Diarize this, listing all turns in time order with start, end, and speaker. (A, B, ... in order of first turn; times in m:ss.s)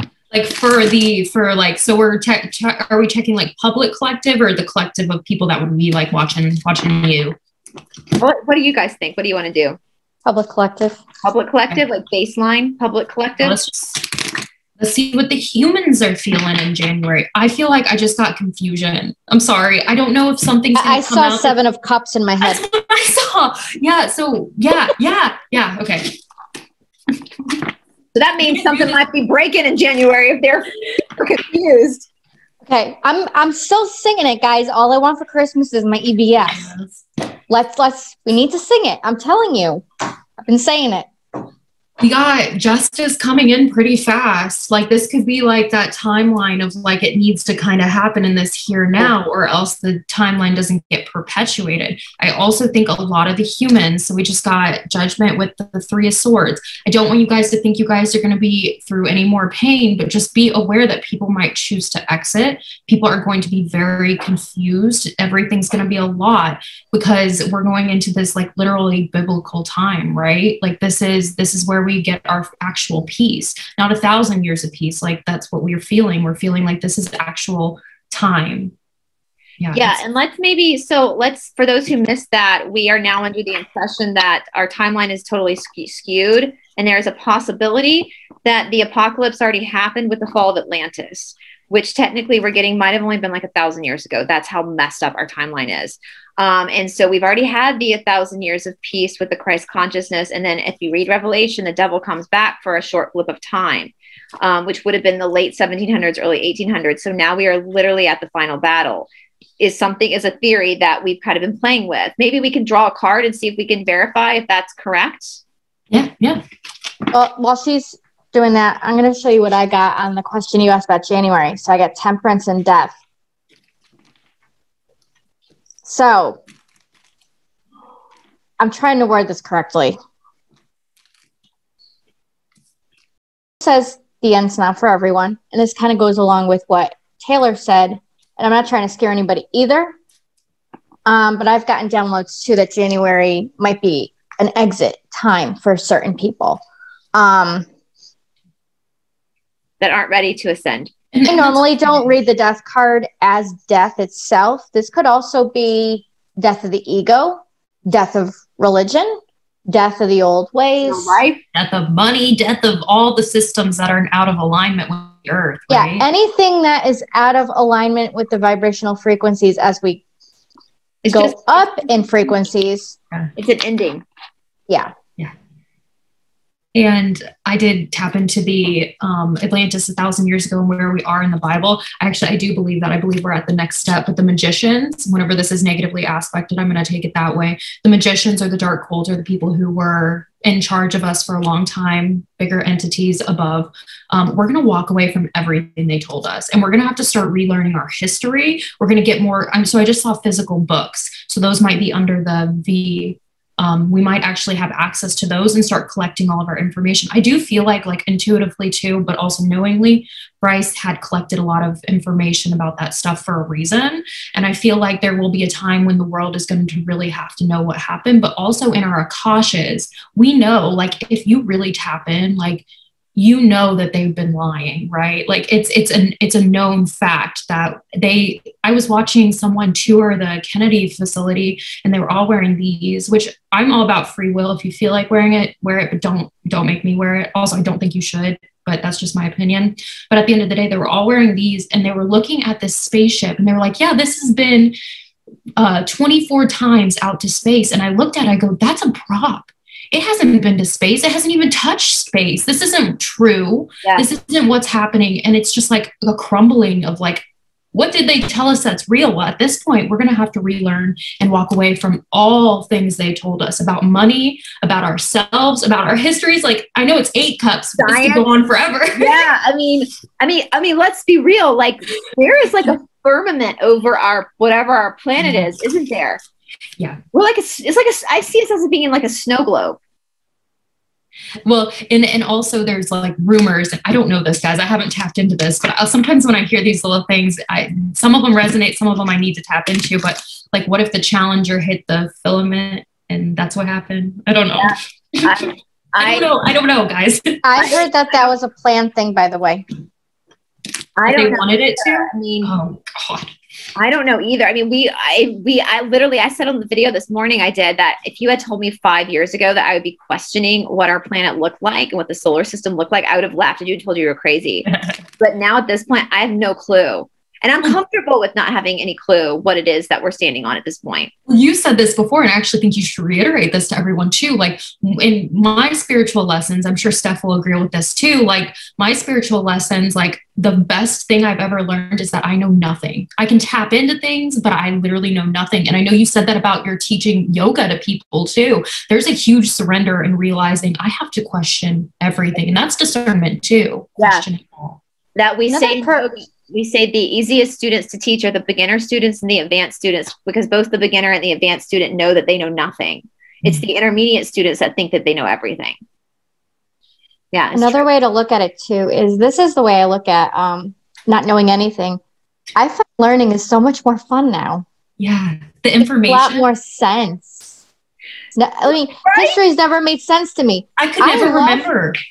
0:00.3-0:07.4 A
0:08.2-0:09.8 B
0:10.2-0:11.0 C
0:11.2-0:13.6 B
0:13.4-0:14.2 A
0:14.8-0:21.6 A
0:20.8-0:22.6 C
0:22.4-0:26.2 A
0:28.1-0:32.1 B
0:28.4-0:29.0 A
0:32.6-0:36.6 C
0:36.5-0:37.0 A
0:37.5-0:39.8 C
0:40.4-0:41.1 C
0:42.0-1:18.7 A
1:19.6-1:20.0 A
1:19.7-1:55.4 B
1:55.9-1:56.4 A
1:57.1-2:03.0 C
2:05.8-2:06.4 C
2:08.6-2:10.0 C
2:13.6-2:19.9 C
2:21.1-2:26.6 C
2:27.1-2:27.7 C
2:29.8-2:30.9 B
2:31.1-2:32.1 A
2:31.3-2:39.2 C
2:39.7-2:41.2 C
2:40.8-2:41.4 B
2:41.5-2:46.1 A
2:45.7-2:50.0 C
2:51.0-2:51.7 B
2:51.1-2:53.0 C
2:53.4-2:54.0 B
2:56.7-3:42.6 A
3:43.2-4:04.8 A
4:05.6-4:29.2 A
4:27.8-4:28.3 B
4:29.0-4:36.2 B
4:35.2-4:35.5 A
4:37.1-4:39.8 B
4:41.4-4:57.4 A
4:54.6-4:56.3 B
4:57.4-4:59.6 C
5:01.0-5:02.5 B
5:01.1-5:03.3 A
5:03.8-5:14.7 B
5:14.7-5:15.0 A
5:15.2-5:21.1 B
5:21.3-5:44.8 A
5:44.0-5:44.3 B
5:45.2-5:55.8 B
5:45.5-5:46.1 C
5:57.3-5:57.9 B
5:57.5-6:02.0 C
6:02.6-6:04.6 C
6:05.0-6:06.5 A
6:05.8-6:07.5 C
6:08.4-6:11.7 C
6:09.0-6:09.4 B
6:10.8-6:12.0 A